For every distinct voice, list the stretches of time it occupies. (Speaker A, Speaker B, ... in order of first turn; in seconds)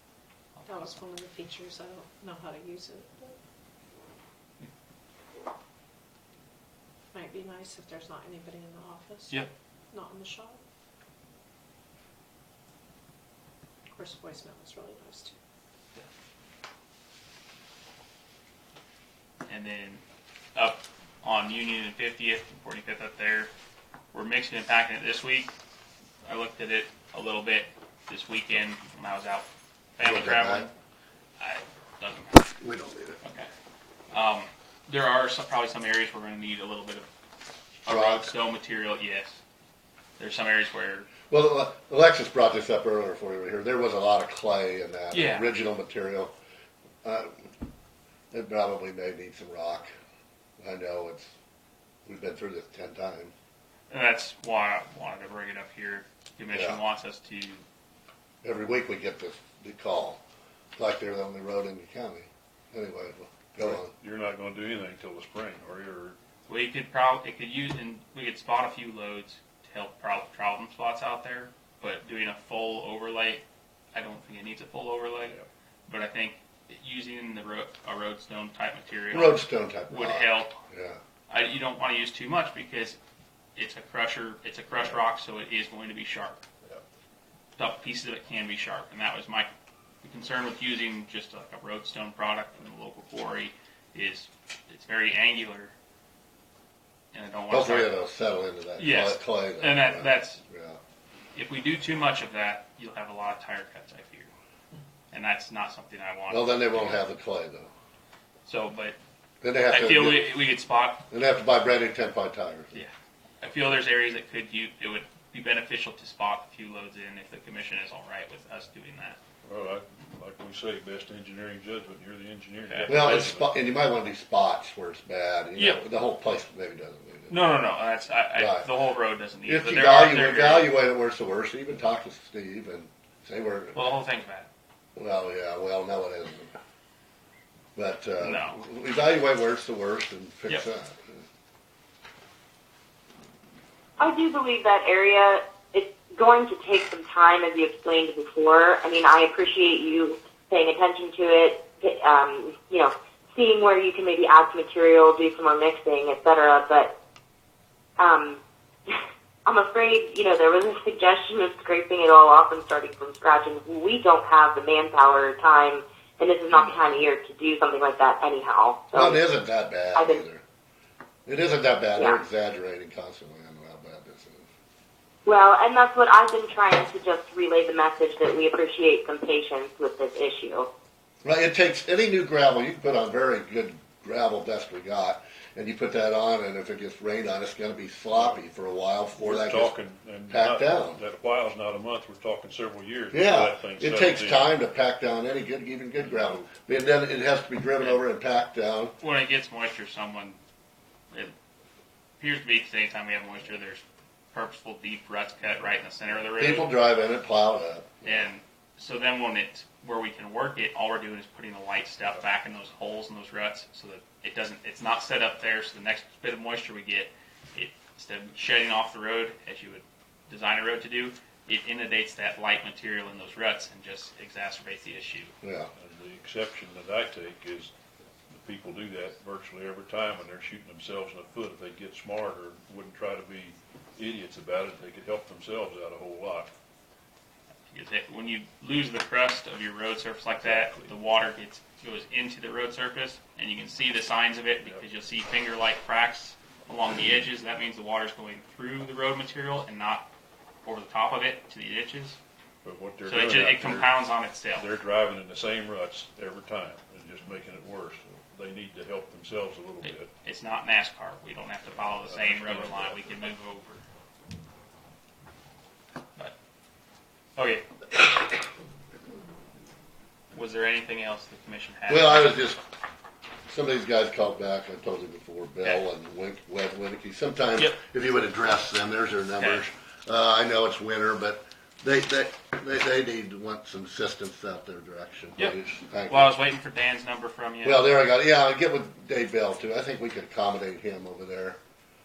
Speaker A: 0.6-0.9, 19.5-20.0, 20.6-23.5, 24.1-25.5, 26.2-30.7, 31.4-32.5, 33.2-33.5, 34.1-37.1, 37.9-39.4, 40.2-41.1, 45.1-45.5, 53.9-57.6, 66.5-80.6, 81.3-83.0, 83.6-86.4, 87.6-89.5, 90.0-95.7, 97.1-97.9, 98.8-100.4, 101.3-104.3, 105.1-107.0, 108.5-109.0, 109.7-111.0, 112.7-119.2, 122.7-122.9, 125.6-125.8, 127.3-130.7, 133.7-134.5, 138.2-138.6, 199.0-200.4, 202.2-203.8, 204.3-206.7, 208.0-225.3, 237.7-250.1, 250.7-252.2, 253.1-254.7, 259.8-263.8, 267.4-267.6, 270.3-272.4, 279.4-279.6, 286.1-287.9
Speaker B: 0.7-3.4, 7.1-10.6, 13.9-15.3
Speaker C: 30.0-30.7, 32.6-33.2, 37.9-38.3, 41.3-46.3, 47.0-47.3, 48.3-49.9, 50.6-51.3, 52.1-53.3, 56.5-56.8, 58.4-60.2, 60.8-63.9, 79.1-81.0, 97.5-100.8, 106.3-107.7, 109.4-110.4, 111.1-112.8, 122.9-127.4, 128.4-128.7, 129.5-133.8, 135.0-136.6, 137.8-141.1, 166.7-166.9, 168.9-170.4, 171.3-174.5, 181.2-189.8, 190.3-191.0, 193.1-199.0, 206.4-208.3, 225.4-225.7, 271.9-272.6, 273.5-286.3, 287.6-291.6
Speaker D: 63.6-66.2, 84.7-85.0, 119.4-123.5, 188.1-188.4, 189.2-194.5, 196.0-196.4, 225.8-227.7, 228.3-236.5, 240.4-240.9, 252.6-260.1, 261.7-263.1
Speaker E: 144.0-156.9, 158.0-169.2, 169.9-170.2, 175.3-180.7